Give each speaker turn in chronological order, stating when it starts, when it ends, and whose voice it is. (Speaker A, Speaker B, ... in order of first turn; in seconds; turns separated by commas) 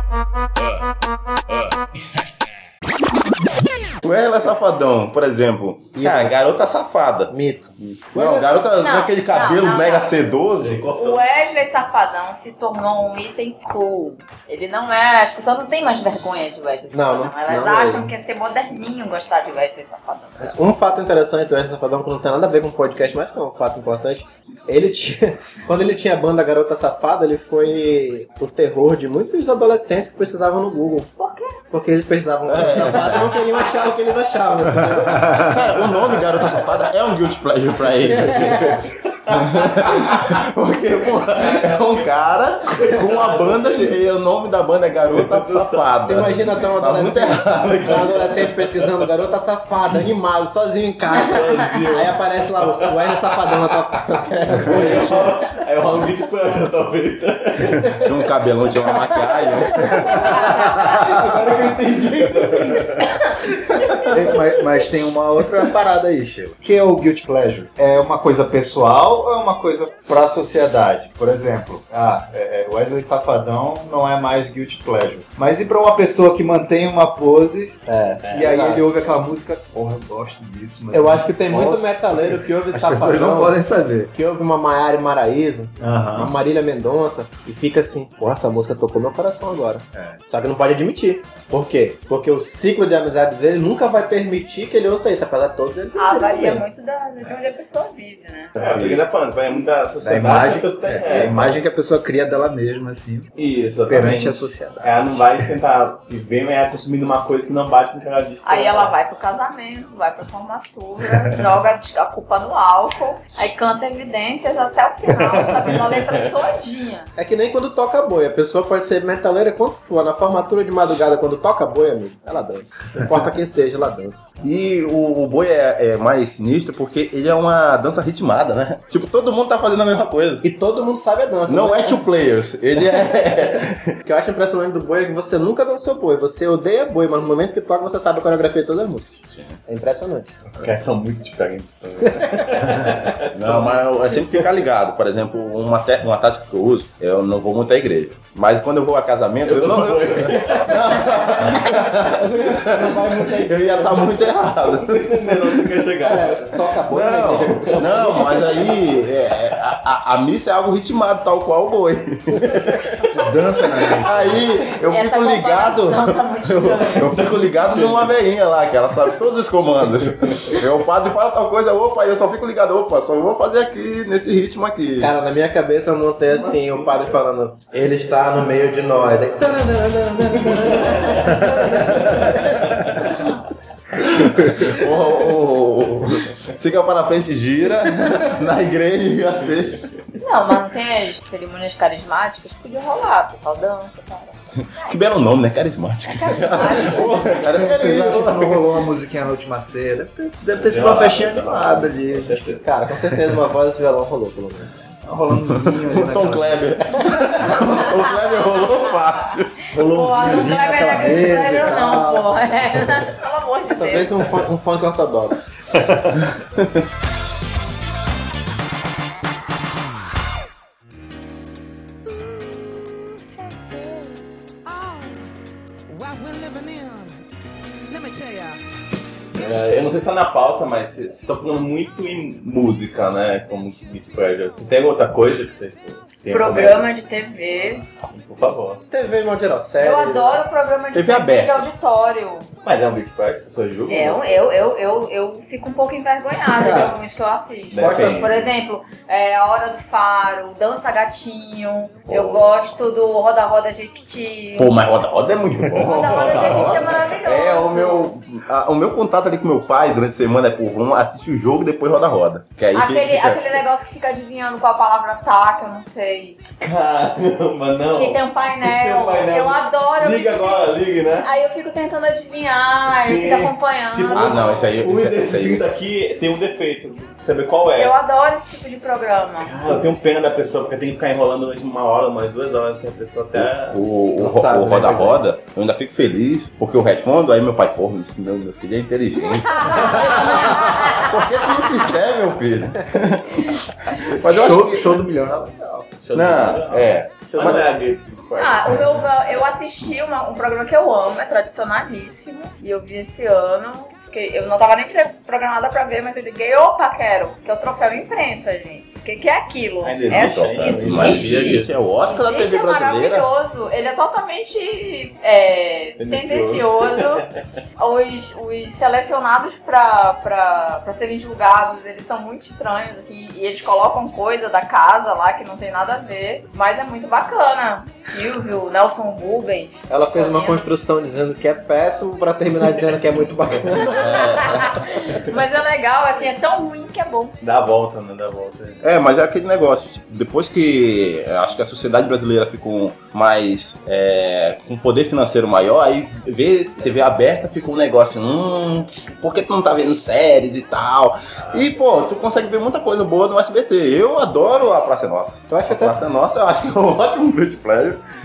Speaker A: 4.0-7.3, Speaker B: 6.0-6.3, Speaker B: 7.3-8.5, Speaker A: 8.1-10.9, Speaker C: 8.8-10.2, Speaker D: 10.6-11.2, Speaker C: 10.9-20.6, Speaker B: 16.9-18.1, Speaker B: 20.4-31.2, Speaker C: 31.2-31.5, Speaker B: 31.7-35.9, Speaker A: 32.5-33.4, Speaker A: 35.3-48.2, Speaker B: 38.0-38.9, Speaker D: 39.2-40.4, Speaker D: 41.2-42.2, Speaker D: 42.7-44.0, Speaker D: 45.1-45.9, Speaker B: 46.0-55.4, Speaker D: 48.4-48.7, Speaker D: 51.1-53.7, Speaker D: 54.6-58.1, Speaker A: 58.0-60.1, Speaker E: 60.0-60.9, Speaker B: 60.1-62.9, Speaker D: 60.9-64.2, Speaker E: 64.1-84.1, Speaker B: 77.9-78.8, Speaker B: 80.9-83.6, Speaker B: 84.1-96.6, Speaker E: 85.8-86.3, Speaker C: 96.0-98.5, Speaker D: 98.6-101.6, Speaker E: 100.0-103.3, Speaker D: 103.4-108.9, Speaker E: 103.9-105.5, Speaker C: 108.4-117.1, Speaker E: 115.1-115.7, Speaker D: 116.0-116.4, Speaker B: 117.2-124.3, Speaker A: 124.4-130.5, Speaker B: 130.4-132.0, Speaker A: 131.5-133.9, Speaker B: 134.0-140.4, Speaker A: 139.2-139.6, Speaker D: 140.6-144.5, Speaker A: 143.3-155.6, Speaker D: 149.4-151.6, Speaker B: 151.2-154.2, Speaker D: 154.7-156.6, Speaker B: 156.0-158.7, Speaker A: 156.9-175.1, Speaker D: 158.2-158.4, Speaker E: 163.1-164.5, Speaker C: 164.8-167.1, Speaker D: 167.1-168.2, Speaker D: 170.2-170.6, Speaker B: 175.0-182.8, Speaker D: 176.4-177.1, Speaker D: 180.5-181.3, Speaker D: 182.0-183.1, Speaker A: 183.9-189.9, Speaker C: 190.2-195.0, Speaker A: 194.6-198.8, Speaker C: 196.1-197.5, Speaker E: 197.4-202.6, Speaker D: 200.5-202.6, Speaker B: 202.6-204.9, Speaker E: 205.0-206.8, Speaker A: 205.5-209.8, Speaker C: 207.6-209.0, Speaker E: 209.7-213.1, Speaker C: 209.7-214.3, Speaker B: 213.7-215.6, Speaker E: 215.7-216.2, Speaker A: 216.4-216.8, Speaker F: 222.1-225.3, Speaker F: 225.9-227.2, Speaker F: 227.9-228.6, Speaker D: 229.3-236.9, Speaker C: 236.3-237.8, Speaker D: 237.6-238.8, Speaker B: 238.9-240.4, Speaker C: 239.8-242.5, Speaker A: 240.9-241.7, Speaker D: 242.6-244.5, Speaker C: 243.9-254.8, Speaker B: 246.5-246.9, Speaker D: 247.7-248.5, Speaker B: 247.7-248.2, Speaker D: 252.1-252.5, Speaker A: 254.6-263.4, Speaker C: 255.8-258.1, Speaker D: 256.3-256.8, Speaker C: 262.7-266.4, Speaker D: 266.6-271.3, Speaker C: 267.9-274.7, Speaker D: 272.9-277.9, Speaker A: 274.1-275.6, Speaker C: 277.7-279.6, Speaker D: 279.4-283.8, Speaker A: 283.4-295.0, Speaker B: 284.2-285.4, Speaker C: 289.5-291.1, Speaker E: 294.2-295.9, Speaker D: 295.9-299.1, Speaker A: 296.1-297.6, Speaker B: 297.3-297.6, Speaker C: 298.4-317.2, Speaker D: 309.8-311.7, Speaker A: 310.1-313.3, Speaker D: 316.0-317.3, Speaker C: 317.8-330.6, Speaker B: 329.9-334.8, Speaker A: 333.9-334.8, Speaker C: 334.1-337.4, Speaker D: 337.4-338.8, Speaker A: 338.8-358.0, Speaker B: 355.5-356.0